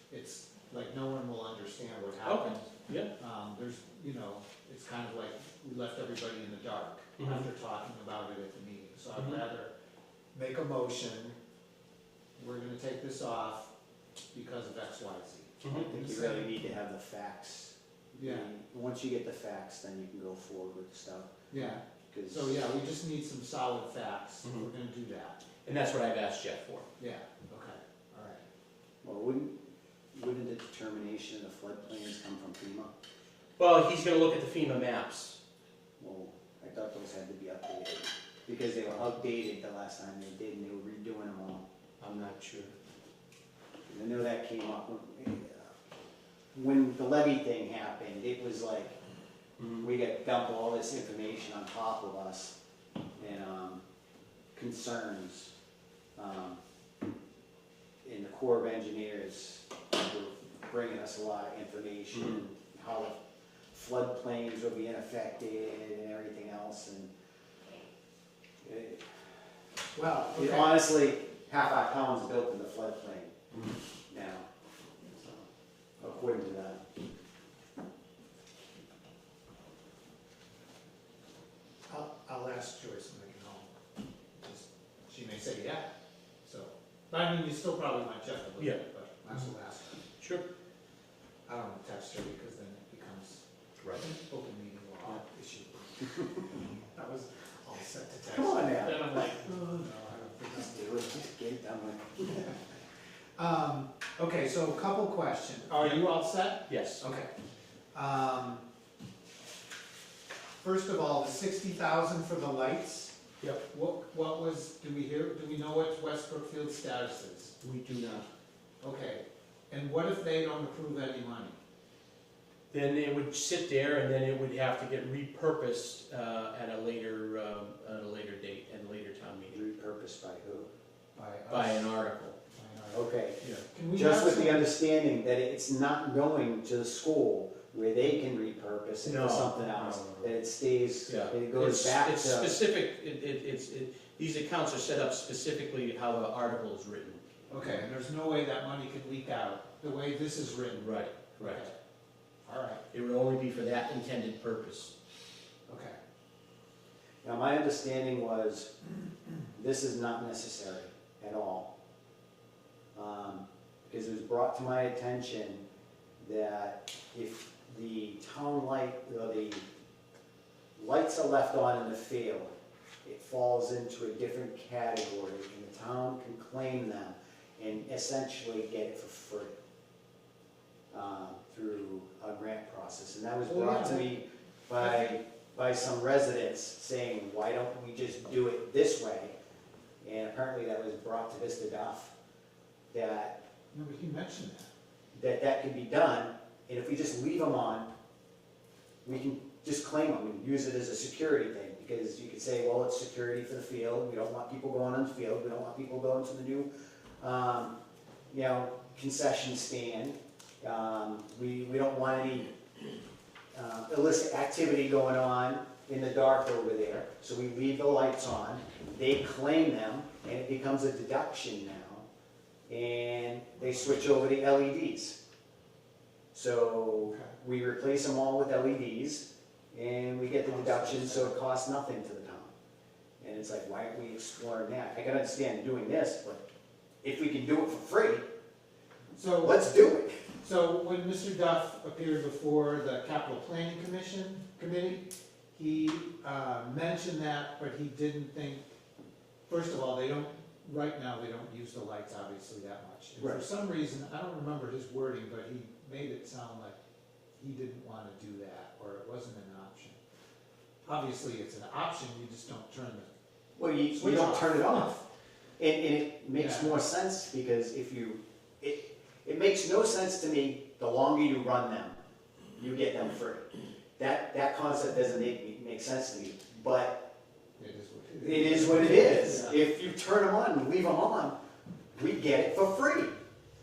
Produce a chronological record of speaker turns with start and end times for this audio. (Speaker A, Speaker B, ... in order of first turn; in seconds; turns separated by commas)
Speaker A: 0.1-9.7, Speaker B: 2.2-3.1, Speaker B: 7.2-7.5, Speaker B: 9.2-9.4, Speaker A: 10.3-11.4, Speaker A: 12.4-13.7, Speaker A: 14.3-16.6, Speaker C: 15.7-21.3, Speaker A: 18.2-18.5, Speaker A: 21.5-25.4, Speaker C: 22.1-22.5, Speaker B: 25.6-26.9, Speaker A: 27.0-28.4, Speaker C: 29.0-29.5, Speaker C: 30.1-32.9, Speaker B: 33.6-35.4, Speaker C: 36.0-41.6, Speaker B: 42.0-42.7, Speaker C: 43.9-45.7, Speaker C: 46.5-49.0, Speaker B: 49.6-49.8, Speaker C: 49.8-52.5, Speaker C: 53.2-53.8, Speaker C: 54.5-55.5, Speaker C: 56.1-56.6, Speaker C: 58.0-63.2, Speaker C: 63.7-67.1, Speaker C: 68.6-69.1, Speaker A: 69.9-70.8, Speaker C: 70.3-73.4, Speaker C: 74.1-74.5, Speaker C: 75.0-75.5, Speaker C: 76.0-76.8, Speaker A: 81.9-83.7, Speaker A: 84.4-85.9, Speaker A: 86.4-89.9, Speaker A: 91.5-101.3, Speaker C: 98.3-99.2, Speaker C: 100.5-102.5, Speaker A: 103.4-107.3, Speaker B: 106.7-107.0, Speaker A: 107.9-108.6, Speaker A: 110.6-113.1, Speaker A: 113.7-117.5, Speaker B: 117.6-118.3, Speaker A: 118.8-121.6, Speaker B: 122.7-129.6, Speaker C: 129.5-130.7, Speaker A: 131.2-131.9, Speaker B: 131.5-132.4, Speaker A: 132.5-133.2, Speaker C: 132.9-142.6, Speaker A: 133.7-134.7, Speaker B: 139.0-140.3, Speaker B: 141.1-147.2, Speaker A: 147.5-150.9, Speaker B: 150.7-151.6, Speaker A: 151.4-151.7, Speaker A: 152.4-152.8, Speaker B: 152.9-154.9, Speaker A: 155.7-156.0, Speaker C: 157.2-158.7, Speaker C: 159.5-161.7, Speaker C: 162.9-165.6, Speaker C: 166.2-169.7, Speaker C: 170.8-179.5, Speaker C: 180.9-189.3, Speaker A: 183.4-184.1, Speaker A: 184.8-185.1, Speaker C: 190.0-192.1, Speaker C: 192.9-193.4, Speaker A: 193.7-194.7, Speaker C: 195.1-197.9, Speaker C: 199.0-206.7, Speaker C: 207.2-207.7, Speaker C: 208.3-212.5, Speaker C: 213.5-222.1, Speaker C: 222.7-225.2, Speaker C: 226.3-232.5, Speaker A: 230.5-231.3, Speaker C: 233.2-236.4, Speaker C: 237.0-238.2, Speaker A: 239.1-239.8, Speaker C: 239.4-240.2, Speaker A: 240.4-248.6, Speaker A: 249.5-256.8, Speaker A: 257.4-260.0, Speaker A: 260.9-263.1, Speaker C: 263.6-265.0, Speaker A: 263.9-264.9, Speaker C: 265.6-272.0, Speaker A: 266.3-266.8, Speaker C: 272.6-277.0, Speaker A: 277.6-279.6, Speaker C: 278.2-281.4, Speaker C: 281.9-283.2